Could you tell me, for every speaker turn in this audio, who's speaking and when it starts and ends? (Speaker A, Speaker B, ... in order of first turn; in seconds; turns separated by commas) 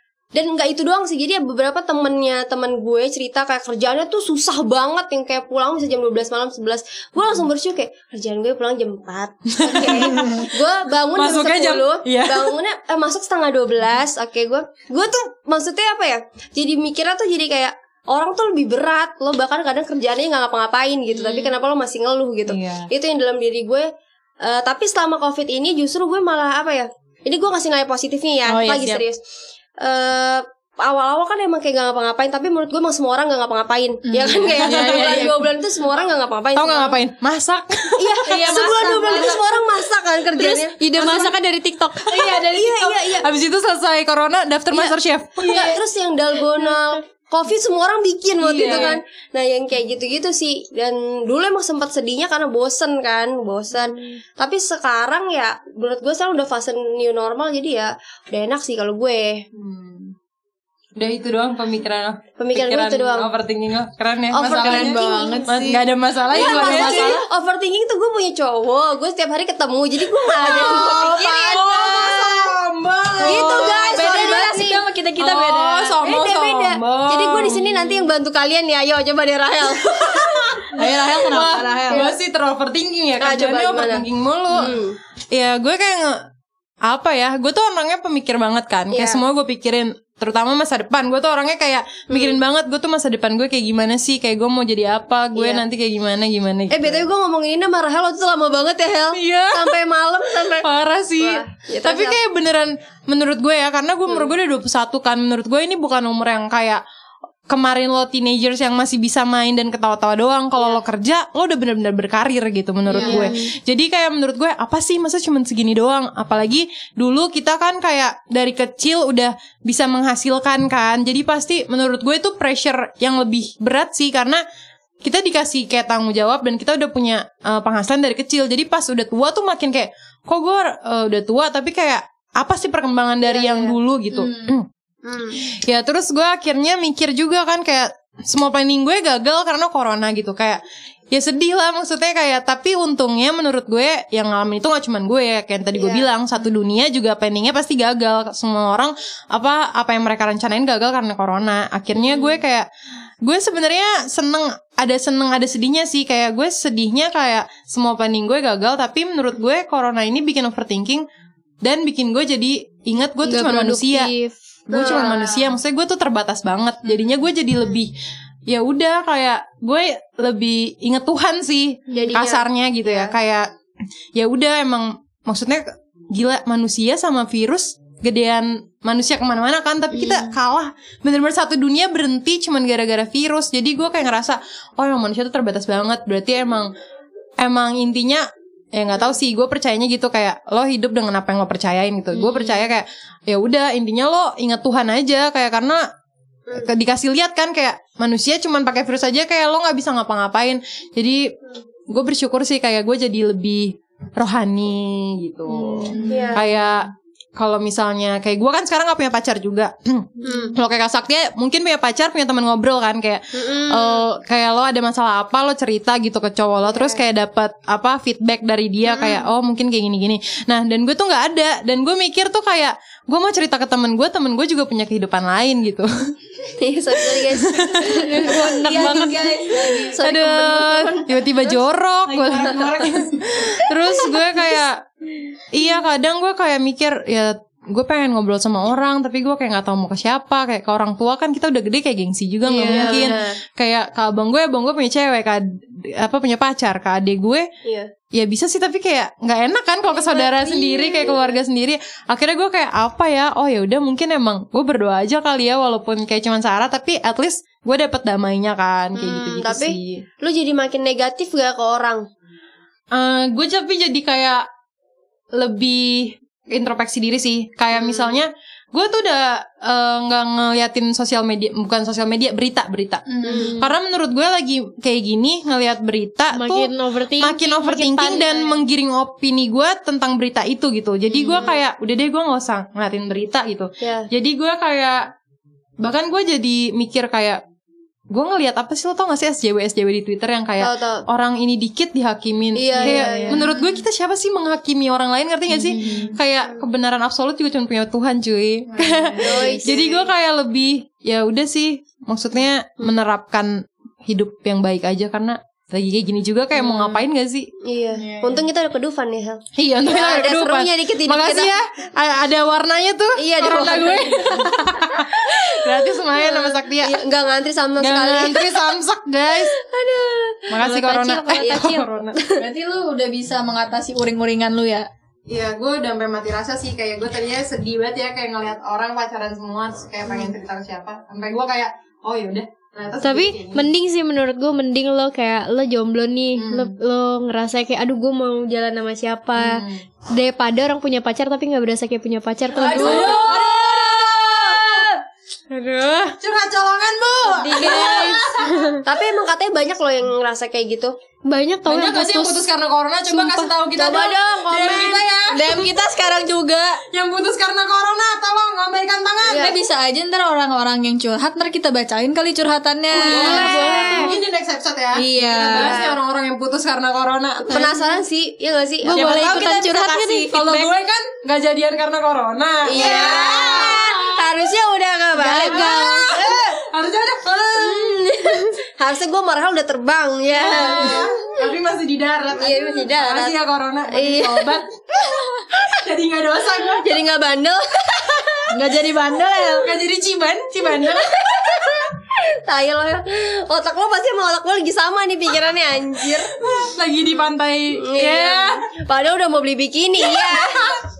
Speaker A: 0.3-23.9, Speaker B: 9.6-10.5, Speaker C: 10.1-10.3, Speaker B: 11.1-12.5, Speaker B: 22.5-22.9, Speaker A: 24.4-29.2, Speaker C: 28.5-29.0, Speaker A: 29.8-37.0, Speaker C: 34.1-35.4, Speaker B: 34.4-35.4, Speaker B: 36.5-38.7, Speaker A: 38.0-40.8, Speaker C: 38.3-39.5, Speaker D: 40.4-42.3, Speaker C: 42.1-43.2, Speaker A: 42.2-43.3, Speaker B: 43.2-45.5, Speaker C: 45.4-45.8, Speaker A: 45.4-59.4, Speaker C: 46.5-46.8, Speaker C: 48.4-49.0, Speaker B: 48.5-49.0, Speaker B: 59.5-60.1, Speaker B: 61.0-67.2, Speaker A: 62.4-63.3, Speaker A: 64.3-65.5, Speaker C: 64.4-67.2, Speaker A: 66.3-72.5, Speaker B: 70.3-74.1, Speaker C: 70.4-71.1, Speaker A: 73.2-74.8, Speaker C: 73.2-76.0, Speaker B: 75.2-78.1, Speaker A: 76.0-80.8, Speaker B: 79.8-80.7, Speaker C: 80.7-82.1, Speaker B: 81.2-84.8, Speaker A: 83.2-85.0, Speaker B: 85.3-86.2, Speaker B: 86.8-97.1, Speaker A: 88.9-89.2, Speaker A: 92.1-92.4, Speaker A: 95.3-95.6, Speaker A: 96.7-100.7, Speaker B: 99.1-99.8, Speaker B: 100.6-106.8, Speaker A: 101.2-102.2, Speaker B: 107.5-124.4, Speaker A: 110.6-110.8, Speaker A: 112.9-113.3, Speaker D: 113.0-113.5, Speaker B: 125.0-134.7, Speaker A: 133.2-133.8, Speaker C: 134.1-134.6, Speaker A: 135.0-135.4, Speaker B: 135.5-152.7, Speaker A: 145.7-146.0, Speaker B: 153.2-161.0, Speaker B: 161.6-164.1, Speaker D: 163.2-164.3, Speaker B: 164.7-167.9, Speaker A: 164.7-165.5, Speaker B: 168.5-173.5, Speaker D: 171.9-172.2, Speaker A: 171.9-173.1, Speaker B: 174.1-186.7, Speaker B: 187.4-195.8, Speaker B: 196.5-201.3, Speaker B: 201.9-225.9, Speaker C: 205.9-206.4, Speaker A: 206.0-206.5, Speaker A: 210.2-210.5, Speaker A: 213.3-214.0, Speaker A: 216.7-217.0, Speaker A: 218.8-219.2, Speaker A: 226.6-231.6, Speaker B: 227.0-229.1, Speaker D: 227.8-229.3, Speaker C: 228.1-230.0, Speaker B: 230.0-234.8, Speaker C: 232.1-233.2, Speaker B: 235.5-247.5, Speaker A: 242.5-243.4, Speaker C: 242.6-243.1, Speaker A: 247.6-247.9, Speaker B: 248.1-260.0, Speaker A: 249.9-251.4, Speaker A: 258.9-262.1, Speaker B: 262.9-264.4, Speaker B: 265.3-285.1, Speaker A: 267.7-268.2, Speaker A: 273.2-273.5, Speaker D: 273.2-273.7, Speaker D: 276.3-278.5, Speaker A: 281.1-281.6, Speaker A: 283.8-284.1, Speaker B: 285.8-287.4, Speaker B: 288.1-307.5, Speaker A: 290.6-291.1, Speaker A: 292.5-293.4, Speaker D: 292.8-293.3, Speaker D: 295.6-296.1, Speaker C: 298.7-299.6, Speaker A: 299.2-300.1, Speaker A: 306.6-307.0, Speaker A: 307.6-311.5, Speaker C: 307.9-308.4, Speaker B: 309.6-317.0, Speaker A: 313.2-318.5, Speaker C: 313.5-314.1, Speaker B: 317.8-319.5, Speaker A: 319.4-320.5, Speaker B: 320.5-322.2, Speaker D: 320.6-321.8, Speaker A: 321.4-322.4, Speaker C: 322.4-324.9, Speaker B: 325.3-333.7, Speaker D: 333.0-343.2, Speaker B: 336.4-336.8, Speaker B: 339.4-339.8, Speaker B: 342.5-344.9, Speaker C: 342.6-344.9, Speaker D: 345.5-346.1, Speaker B: 346.2-348.7, Speaker A: 347.3-348.2, Speaker D: 347.5-348.8, Speaker C: 347.6-348.1, Speaker A: 348.8-350.9, Speaker D: 351.2-352.4, Speaker B: 351.7-355.7, Speaker D: 353.1-353.5, Speaker A: 353.7-355.0, Speaker C: 355.3-356.8, Speaker B: 356.9-359.5, Speaker A: 359.3-359.5, Speaker C: 359.4-363.6, Speaker B: 363.0-367.8, Speaker A: 363.0-364.1, Speaker D: 363.1-364.1, Speaker C: 364.9-365.8, Speaker A: 365.5-366.0, Speaker A: 367.5-369.1, Speaker D: 368.8-370.3, Speaker C: 368.9-370.7, Speaker B: 369.0-369.3, Speaker B: 370.3-374.3, Speaker A: 372.6-376.4, Speaker C: 372.8-373.7, Speaker C: 375.2-376.0, Speaker D: 375.2-376.1, Speaker B: 375.3-378.0, Speaker A: 377.6-381.3, Speaker B: 380.3-386.9, Speaker A: 382.3-383.4, Speaker A: 383.9-384.6, Speaker A: 386.7-388.5, Speaker C: 388.5-389.8, Speaker B: 389.3-391.8, Speaker A: 390.8-396.3, Speaker B: 396.4-398.6, Speaker A: 397.8-400.6, Speaker B: 400.2-400.8